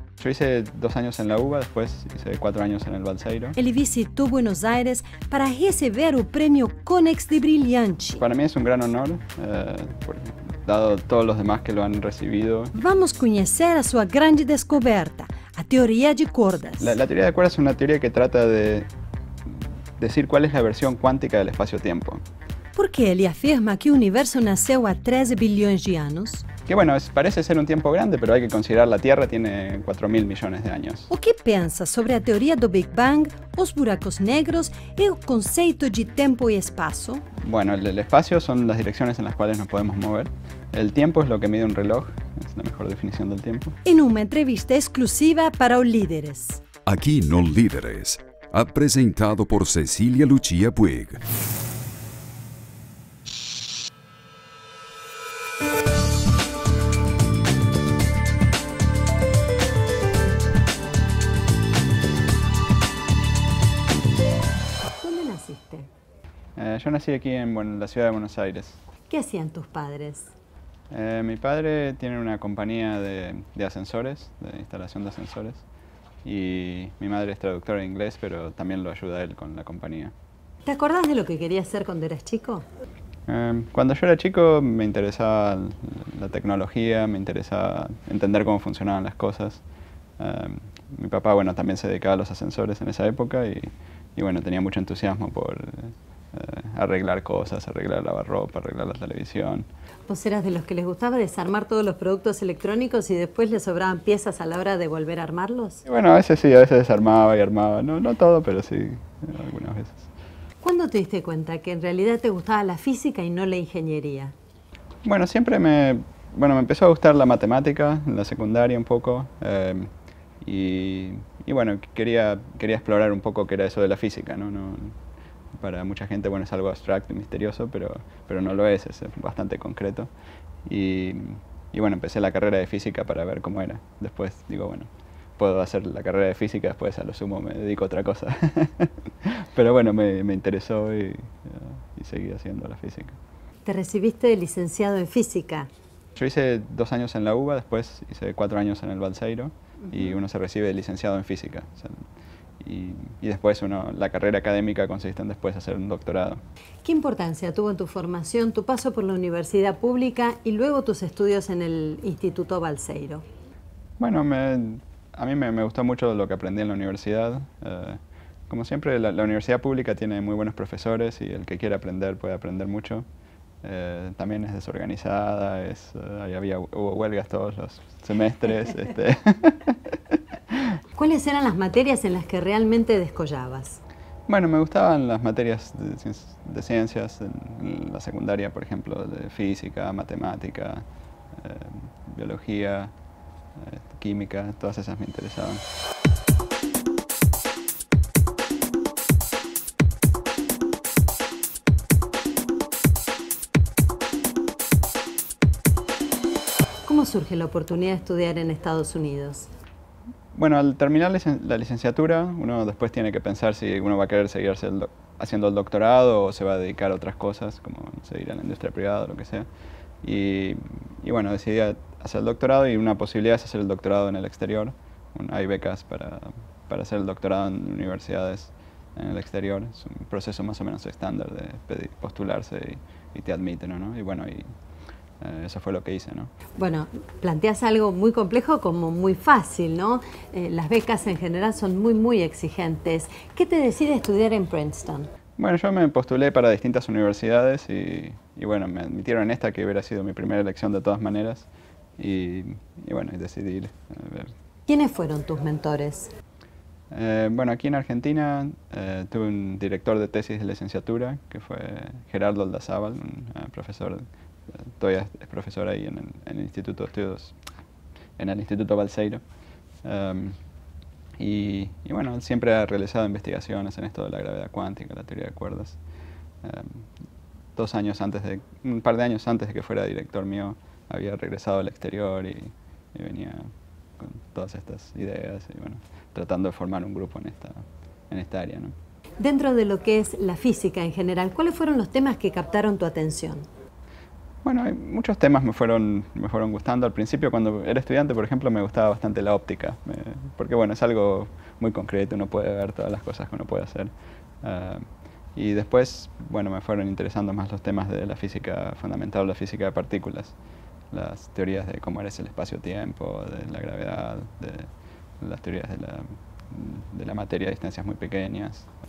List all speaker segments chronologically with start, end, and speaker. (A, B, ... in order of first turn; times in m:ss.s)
0:00.2-0:03.6 A
0:03.6-0:08.2 B
0:08.2-0:12.7 A
0:12.7-0:17.0 B
0:16.8-0:18.9 A
0:19.4-0:22.2 A
0:22.8-0:26.5 B
0:26.7-0:31.1 A
0:31.1-0:37.2 B
0:37.4-0:43.8 A
0:43.8-0:46.6 B
0:46.9-0:51.2 C
1:05.0-1:05.9 B
1:06.6-1:08.8 A
1:09.1-1:10.3 B
1:10.9-1:15.6 A
1:16.2-1:20.1 A
1:20.6-1:22.6 B
1:23.3-1:29.6 A
1:30.2-1:39.7 A
1:40.1-1:45.8 B
1:45.9-1:50.1 A
1:50.6-1:54.3 B
1:55.0-1:59.9 A
2:00.4-2:05.0 A
2:05.6-2:10.1 A
2:10.7-2:23.2 A
2:23.7-2:25.7 B
2:26.2-2:32.0 A
2:32.6-2:36.4 A
2:36.8-2:43.2 B
2:44.0-2:53.1 A
2:53.6-3:00.7 A
3:01.0-3:03.8 B
3:04.3-3:12.9 A
3:13.6-3:15.6 A
3:26.9-3:29.5 B
3:30.3-3:39.5 A
3:40.0-3:54.5 A
3:55.2-3:56.3 A
3:56.6-4:05.1 B
4:05.4-4:14.3 A
4:14.7-4:16.1 B
4:16.9-4:24.0 A
4:24.6-4:27.4 A
4:28.2-4:29.2 A
4:29.8-4:30.4 A
4:31.2-4:35.8 A
4:36.4-4:36.9 A
4:37.6-4:48.7 A
4:49.2-4:53.5 B
4:54.4-5:03.9 A
5:04.4-5:10.3 A
5:10.9-5:14.7 A
5:15.2-5:18.7 A